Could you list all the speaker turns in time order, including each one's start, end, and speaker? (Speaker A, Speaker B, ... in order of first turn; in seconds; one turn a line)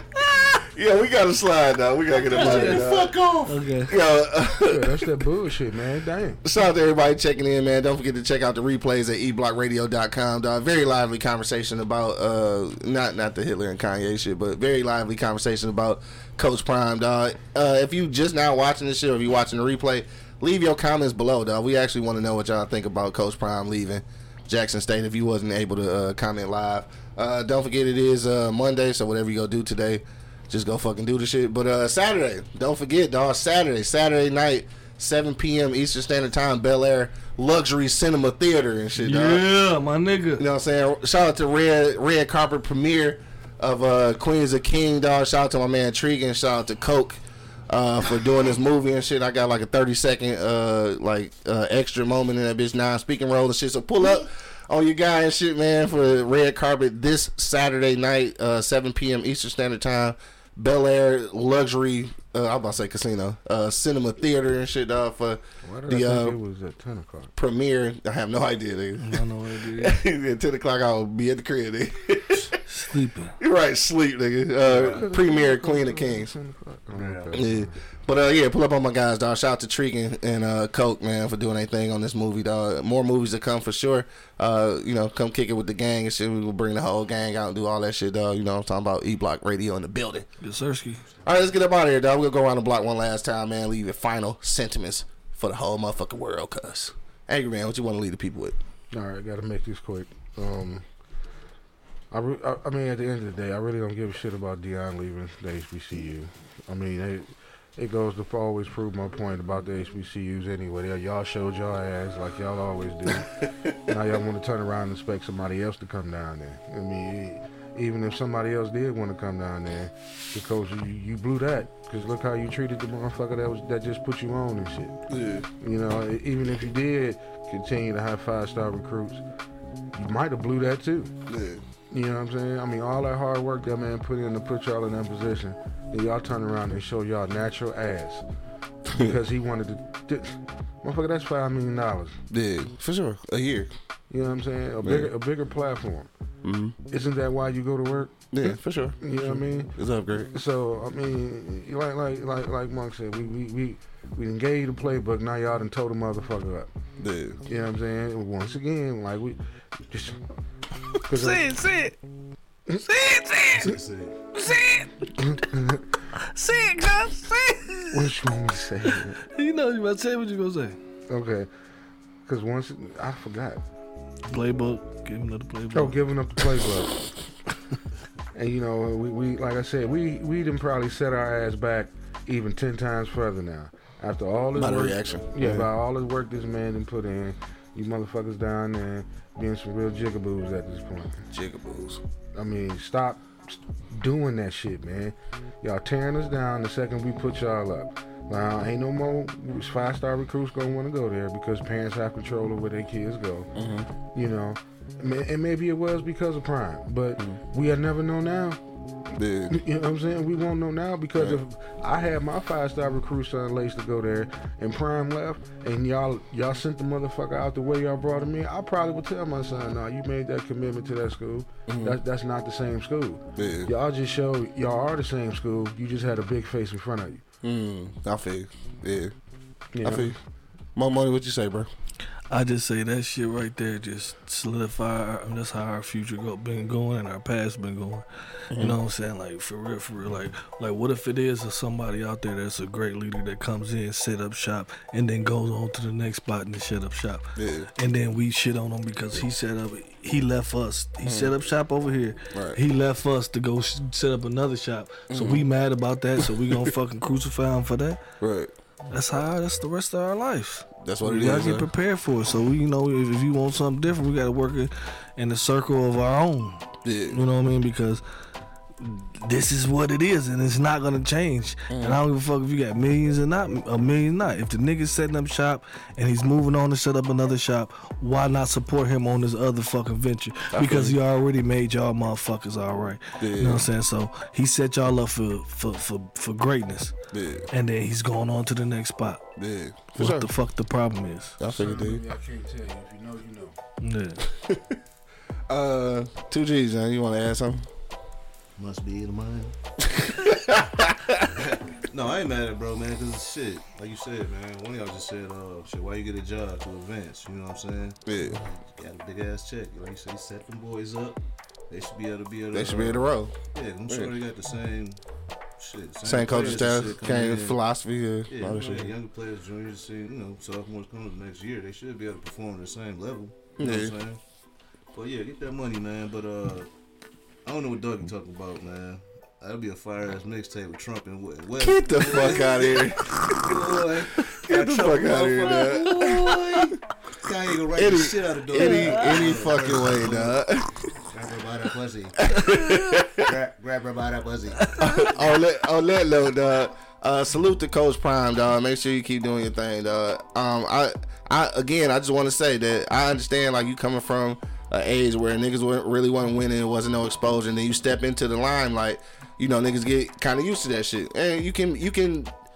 Speaker A: 0.6-3.1
Speaker B: 2.1-3.6
Speaker C: 2.3-2.9
Speaker C: 3.5-4.0
Speaker A: 3.9-5.1
Speaker D: 4.7-6.4
Speaker A: 6.4-39.5
Speaker C: 39.0-40.4
Speaker A: 40.4-66.4
Speaker D: 65.6-67.3
Speaker A: 67.3-72.6
Speaker C: 69.0-70.0
Speaker C: 72.7-73.3
Speaker A: 73.4-76.3
Speaker D: 74.7-77.8
Speaker B: 74.7-75.0
Speaker B: 76.9-77.5
Speaker A: 77.3-90.3
Speaker C: 90.4-91.0
Speaker A: 91.2-98.6
Speaker D: 98.9-100.9
Speaker D: 102.1-125.0
Speaker A: 125.1-125.5
Speaker D: 125.6-129.2
Speaker D: 129.9-131.1
Speaker A: 131.3-131.6
Speaker D: 131.9-138.2
Speaker A: 138.9-139.2
Speaker D: 138.9-142.2
Speaker A: 142.3-143.7
Speaker D: 144.1-146.1
Speaker A: 144.8-145.1
Speaker A: 146.4-146.8
Speaker D: 146.9-149.7
Speaker A: 148.3-150.3
Speaker D: 150.3-156.7
Speaker A: 157.0-157.4
Speaker D: 157.5-160.2
Speaker D: 161.1-161.4
Speaker C: 161.1-162.0
Speaker C: 162.8-163.7
Speaker B: 163.6-164.2
Speaker C: 164.3-165.1
Speaker D: 165.2-165.9
Speaker C: 166.2-168.1
Speaker D: 167.9-169.2
Speaker C: 169.3-170.8
Speaker D: 171.1-171.5
Speaker D: 172.3-173.6
Speaker C: 174.3-176.0
Speaker D: 175.7-176.9
Speaker D: 178.3-191.2
Speaker A: 184.6-185.7
Speaker A: 191.3-192.0
Speaker D: 192.3-203.5
Speaker A: 203.6-203.9
Speaker D: 204.1-208.6
Speaker A: 209.1-209.6
Speaker D: 209.5-227.2
Speaker A: 221.7-222.0
Speaker A: 223.4-223.7
Speaker A: 227.4-229.1
Speaker D: 229.7-230.1
Speaker A: 229.8-230.2
Speaker A: 230.8-231.7
Speaker C: 232.3-247.3
Speaker A: 238.5-238.8
Speaker A: 247.4-247.7
Speaker C: 247.8-258.0
Speaker A: 251.0-251.3
Speaker A: 252.3-252.6
Speaker A: 255.1-255.4
Speaker A: 256.2-256.7
Speaker A: 258.2-258.5
Speaker C: 258.9-268.0
Speaker A: 260.8-261.7
Speaker A: 266.9-267.2
Speaker C: 268.8-286.9
Speaker A: 271.7-272.0
Speaker A: 280.5-281.0
Speaker A: 283.2-283.7
Speaker A: 287.1-287.5
Speaker C: 287.5-289.2
Speaker A: 289.4-290.3
Speaker C: 289.9-291.4
Speaker A: 291.4-292.0
Speaker D: 291.4-293.6
Speaker C: 293.8-294.2
Speaker A: 294.4-294.8
Speaker A: 295.5-297.7
Speaker B: 298.6-299.6
Speaker A: 299.9-301.3
Speaker B: 301.4-315.0
Speaker A: 308.1-308.4
Speaker A: 312.5-313.3
Speaker A: 313.9-314.2
Speaker B: 315.6-317.6
Speaker A: 316.1-318.9
Speaker B: 318.3-324.2
Speaker A: 323.6-323.9
Speaker B: 324.9-326.7
Speaker B: 327.4-336.6
Speaker A: 331.6-333.6
Speaker A: 334.3-336.8
Speaker C: 335.5-336.7
Speaker B: 337.2-340.4
Speaker A: 337.8-340.8
Speaker C: 338.6-339.6
Speaker B: 341.1-342.2
Speaker A: 342.2-343.2
Speaker B: 343.2-344.7
Speaker C: 344.6-345.2
Speaker A: 344.8-362.3